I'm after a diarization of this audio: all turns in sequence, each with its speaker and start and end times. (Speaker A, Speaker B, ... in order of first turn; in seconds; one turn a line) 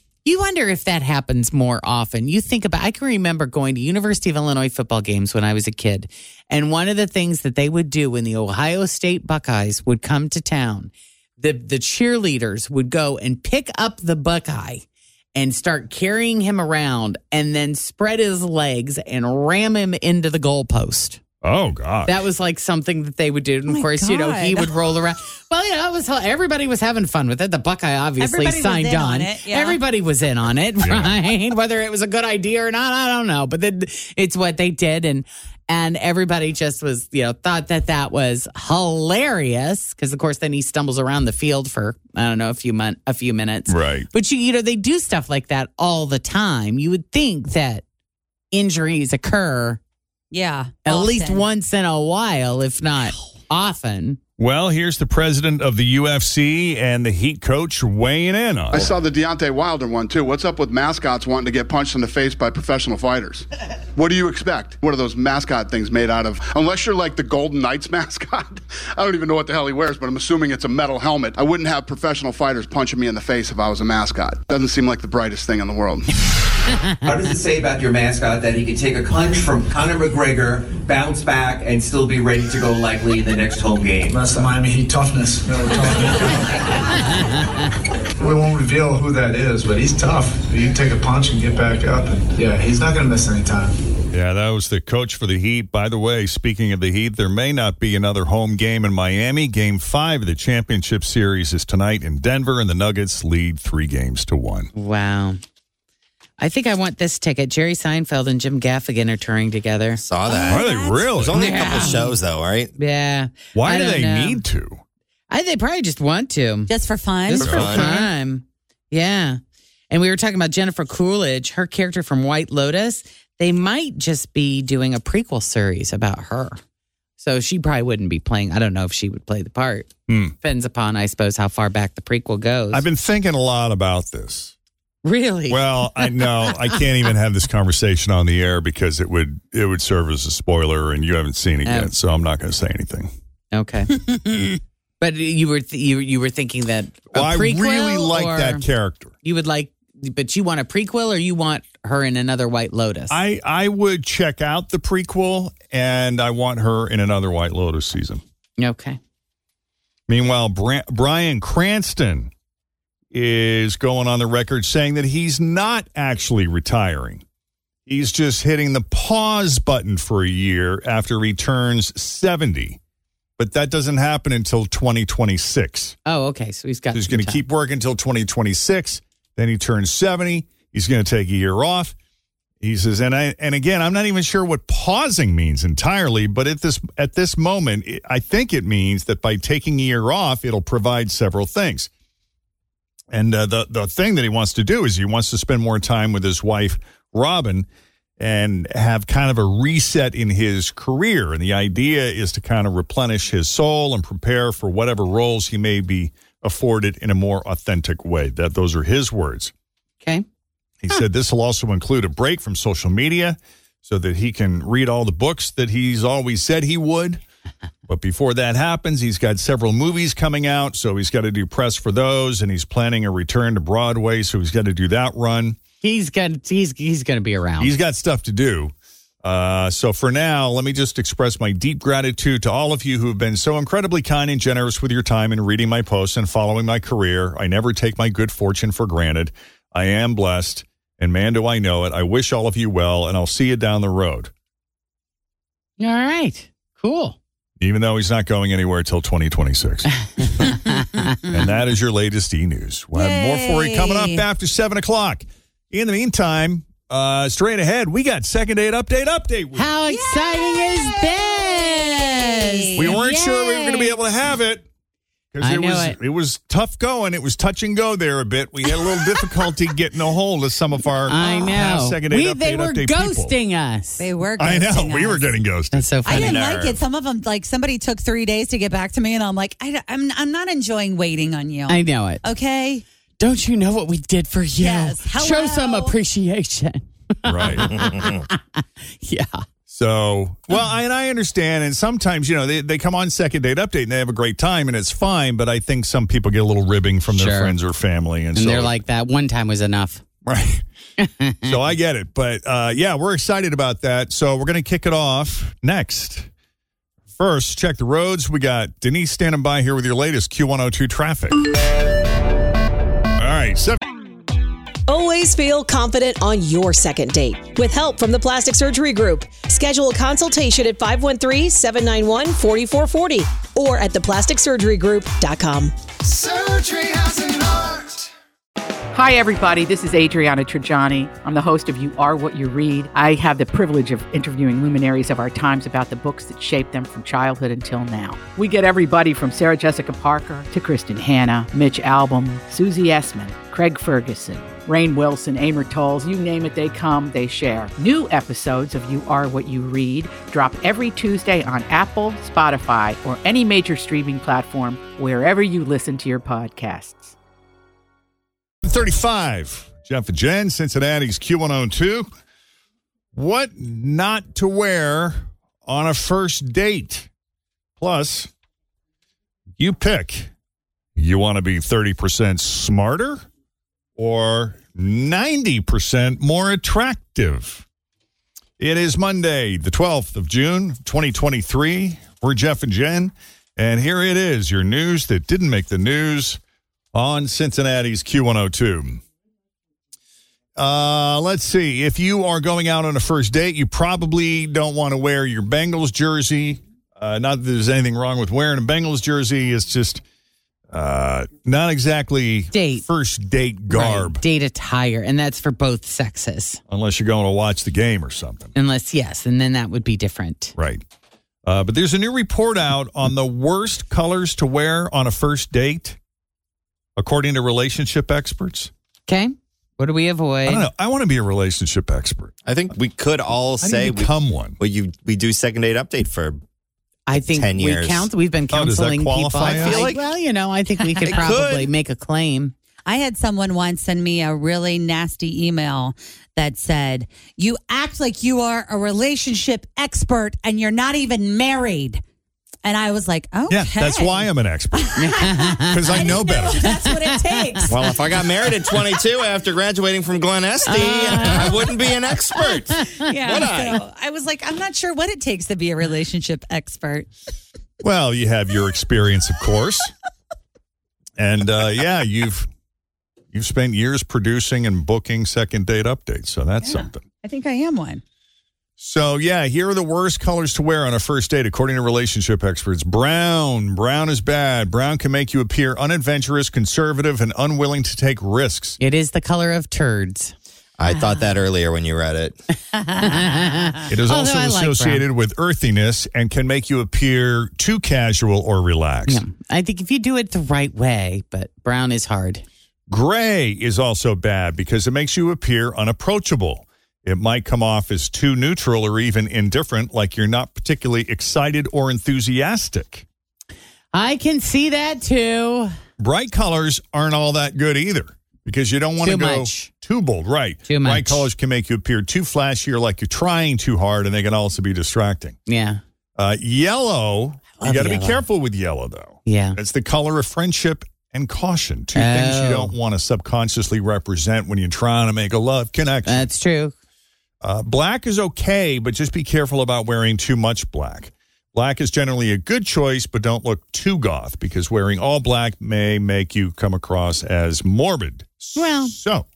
Speaker A: 0.2-14.8
Speaker A: 15.3-21.2
Speaker B: 21.4-22.2
Speaker A: 22.1-47.8
Speaker C: 23.7-24.7
Speaker C: 28.2-29.8
Speaker B: 30.8-31.2
Speaker B: 43.7-44.1
Speaker A: 48.5-49.8
Speaker C: 50.3-51.4
Speaker A: 50.9-54.2
Speaker B: 54.4-58.9
Speaker D: 58.7-76.1
Speaker E: 77.0-84.3
Speaker F: 84.1-86.3
Speaker F: 88.2-93.7
Speaker B: 94.1-104.7
Speaker A: 104.7-105.4
Speaker A: 106.4-110.0
Speaker G: 110.0-112.7
Speaker C: 110.3-112.1
Speaker B: 110.5-111.4
Speaker A: 111.4-112.1
Speaker A: 112.8-114.4
Speaker B: 113.5-114.8
Speaker A: 115.3-116.7
Speaker C: 116.7-118.1
Speaker A: 117.3-126.6
Speaker B: 117.4-117.8
Speaker G: 117.4-117.9
Speaker A: 127.2-132.8
Speaker B: 130.1-130.3
Speaker B: 132.7-134.5
Speaker A: 135.0-136.2
Speaker B: 135.5-143.1
Speaker A: 141.7-141.9
Speaker A: 143.5-144.4
Speaker A: 145.0-148.6
Speaker B: 147.1-149.1
Speaker A: 149.2-153.2
Speaker B: 153.1-158.2
Speaker A: 158.6-159.0
Speaker B: 160.1-162.3
Speaker B: 163.1-167.2
Speaker B: 167.9-172.8
Speaker B: 173.4-176.0
Speaker A: 176.1-177.4
Speaker B: 176.9-181.9
Speaker B: 182.6-191.9
Speaker B: 193.1-197.7
Speaker B: 198.2-209.5
Speaker B: 210.8-217.2
Speaker B: 217.9-225.6
Speaker A: 225.8-227.7
Speaker B: 227.6-244.3
Speaker A: 245.8-247.2
Speaker B: 247.6-250.5
Speaker A: 250.4-251.0
Speaker B: 251.3-259.7
Speaker C: 252.9-254.2
Speaker A: 259.6-264.0
Speaker C: 259.9-262.9
Speaker B: 262.8-264.7
Speaker B: 265.3-273.3
Speaker A: 265.4-266.0
Speaker A: 271.1-274.1
Speaker C: 274.0-275.3
Speaker B: 274.4-275.8
Speaker A: 275.7-276.4
Speaker C: 276.1-282.8
Speaker G: 276.1-276.8
Speaker A: 281.7-282.2
Speaker A: 283.2-289.4
Speaker C: 284.6-285.9
Speaker B: 287.2-287.7
Speaker G: 287.7-288.2
Speaker B: 289.7-298.8
Speaker A: 297.1-297.6
Speaker A: 298.4-300.0
Speaker B: 300.2-300.6
Speaker A: 301.0-301.6
Speaker B: 301.4-306.3
Speaker B: 307.2-311.5
Speaker B: 313.2-313.8
Speaker H: 314.9-325.8
Speaker I: 328.9-357.1
Speaker B: 358.6-362.1
Speaker B: 363.1-367.1
Speaker B: 367.8-368.3
Speaker B: 369.6-370.3
Speaker B: 371.0-373.3
Speaker B: 374.0-377.6
Speaker B: 378.6-386.4
Speaker B: 386.9-389.0
Speaker B: 390.6-400.0
Speaker B: 400.7-404.2
Speaker A: 402.5-402.9
Speaker A: 403.7-406.6
Speaker B: 406.7-408.5
Speaker A: 408.5-410.5
Speaker B: 410.6-410.8
Speaker B: 411.4-416.0
Speaker B: 417.0-418.7
Speaker A: 419.1-420.7
Speaker B: 420.5-422.3
Speaker G: 422.5-426.4
Speaker B: 423.6-424.6
Speaker A: 427.1-432.5
Speaker G: 427.2-428.1
Speaker B: 428.5-430.0
Speaker G: 429.4-430.0
Speaker B: 431.1-431.7
Speaker C: 432.9-442.0
Speaker C: 442.6-444.3
Speaker B: 443.5-446.8
Speaker C: 444.8-447.8
Speaker A: 445.0-446.1
Speaker A: 446.6-447.7
Speaker G: 447.7-453.8
Speaker A: 450.7-451.7
Speaker C: 452.9-457.1
Speaker B: 457.8-459.9
Speaker B: 461.2-462.5
Speaker B: 463.3-467.0
Speaker C: 466.6-468.0
Speaker B: 468.8-478.8
Speaker A: 478.8-480.3
Speaker G: 480.8-482.4
Speaker A: 480.9-481.2
Speaker A: 482.9-485.0
Speaker B: 483.9-489.2
Speaker A: 489.1-492.4
Speaker B: 492.9-503.1
Speaker A: 503.9-505.7
Speaker B: 506.0-515.4
Speaker A: 509.0-509.7
Speaker A: 510.7-511.3
Speaker A: 515.5-515.8
Speaker B: 516.2-526.3
Speaker A: 517.6-518.2
Speaker A: 519.3-519.6
Speaker A: 522.0-522.7
Speaker A: 526.1-526.7
Speaker B: 527.4-539.3
Speaker A: 538.5-538.9